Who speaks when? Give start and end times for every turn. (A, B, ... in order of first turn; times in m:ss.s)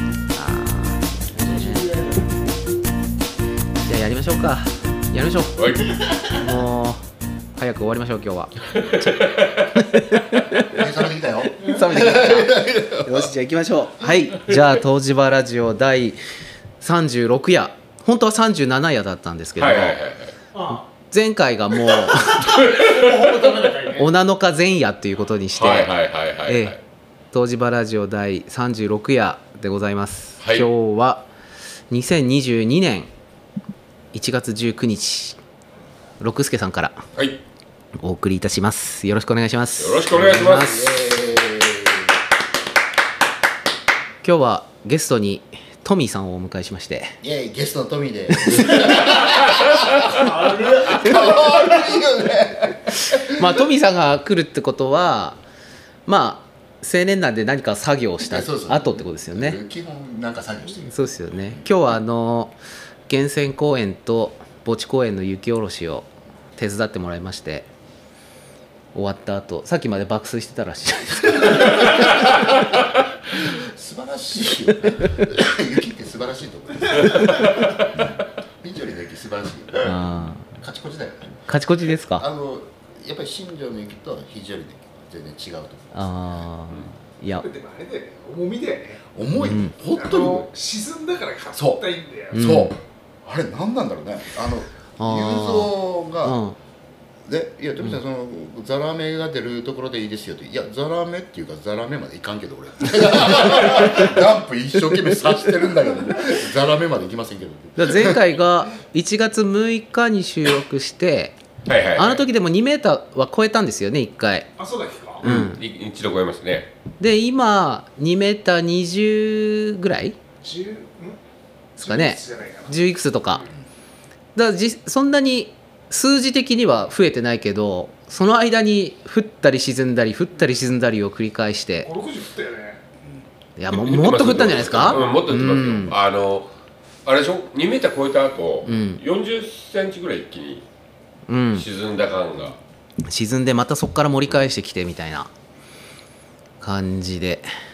0:00.3-0:01.9 A
0:01.3-0:02.3 B
0:03.8-0:07.0 A
0:05.6-0:06.1 C
0:07.6-0:10.9 A
0:08.8-0:09.7 C
0:10.6-0:13.3 D
0:11.4-0:16.2 A
0:11.6-0:12.0 B
0:16.8-0:20.0 A
0:19.6-0:20.3 C
0:20.5-0:20.9 B
0:20.7-0:22.6 A
0:22.0-0:24.1 B
0:22.3-0:23.5 C
0:24.0-0:25.9 A
0:25.6-0:26.8 C
0:26.5-0:26.8 A
0:27.3-0:31.3 A
0:30.4-0:30.7 C
0:31.9-0:33.1 A
0:34.1-0:35.4 A
0:36.2-0:37.0 A
0:37.2-0:37.4 C
0:38.0-0:40.9 A
0:39.8-0:40.9 C
0:40.6-0:42.2 D
0:44.2-0:47.2 A
0:47.2-0:53.6 D
0:50.1-0:51.9 B
0:53.0-0:55.4 A
0:56.1-0:59.6 A
0:58.2-1:01.7 D
1:00.9-1:02.6 A
1:03.1-1:07.7 A
1:09.0-1:12.5 A
1:11.5-1:12.4 D
1:13.3-1:21.4 D
1:19.8-1:20.5 A
1:21.5-1:22.3 A
1:22.1-1:26.4 D
1:25.9-1:27.5 A
1:27.4-1:29.0 B
1:29.1-1:30.5 D
1:29.4-1:29.8 A
1:29.9-1:32.5 B
1:31.6-1:31.8 D
1:32.3-1:32.8 A
1:32.3-1:36.4 D
1:35.0-1:36.6 A
1:37.2-1:48.3 D
1:47.8-1:51.4 A
1:51.7-1:52.3 C
1:52.0-1:54.5 A
1:54.6-1:55.2 B
1:55.2-1:55.6 A
1:55.2-1:56.7 C
1:57.0-2:00.2 A
2:00.4-2:01.2 B
2:01.8-2:03.5 B
2:01.8-2:03.5 A
2:04.4-2:11.9 A
2:11.8-2:12.8 B
2:13.6-2:16.0 A
2:13.7-2:16.5 C
2:17.1-2:20.6 C
2:18.6-2:19.0 A
2:21.3-2:21.7 A
2:21.6-2:22.6 C
2:23.0-2:25.3 A
2:26.6-2:27.5 A